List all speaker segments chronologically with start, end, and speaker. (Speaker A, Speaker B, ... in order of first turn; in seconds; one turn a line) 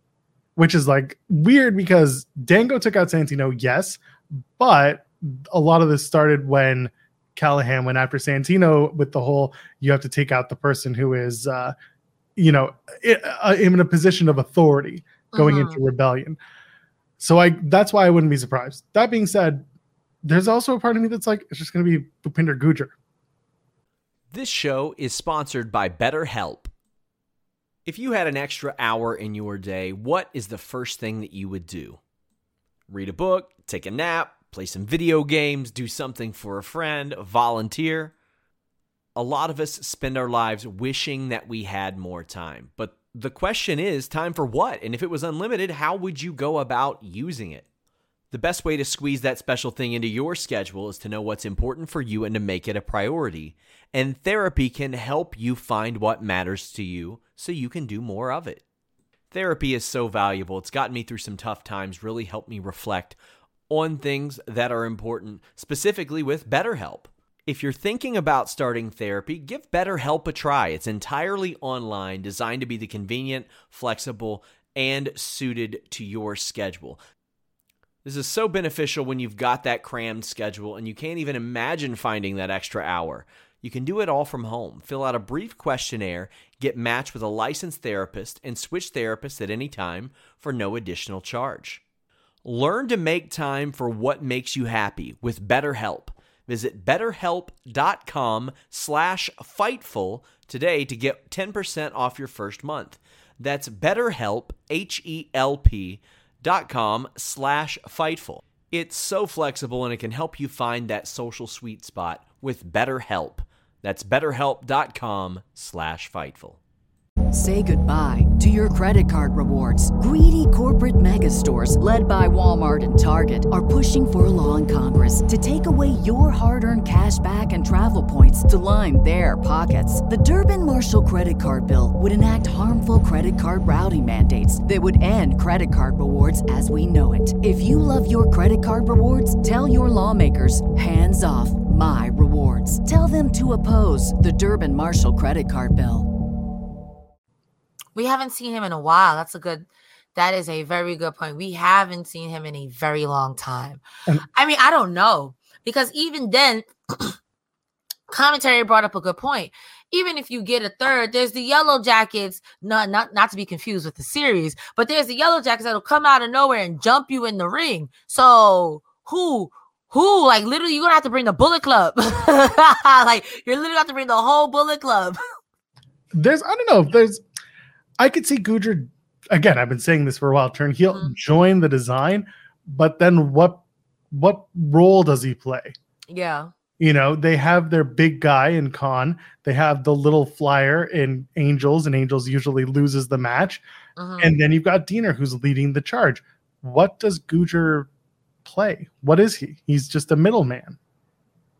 Speaker A: 0.6-4.0
Speaker A: 4.6-11.7
Speaker A: 12.4-16.4
Speaker B: 15.3-15.8
Speaker A: 17.2-19.6
Speaker A: 20.2-22.9
Speaker C: 24.3-26.7
Speaker C: 27.9-32.0
Speaker C: 32.9-38.1
Speaker C: 39.2-47.6
Speaker C: 48.3-58.6
Speaker C: 59.3-63.2
Speaker C: 63.7-77.0
Speaker C: 78.0-91.8
Speaker C: 92.4-116.6
Speaker D: 117.3-146.1
Speaker B: 147.9-153.8
Speaker B: 154.3-157.2
Speaker B: 158.1-175.2
Speaker A: 176.1-177.2
Speaker A: 178.0-185.8
Speaker B: 186.1-186.5
Speaker A: 186.8-193.6
Speaker B: 194.0-194.3
Speaker A: 194.2-197.9
Speaker A: 198.4-200.8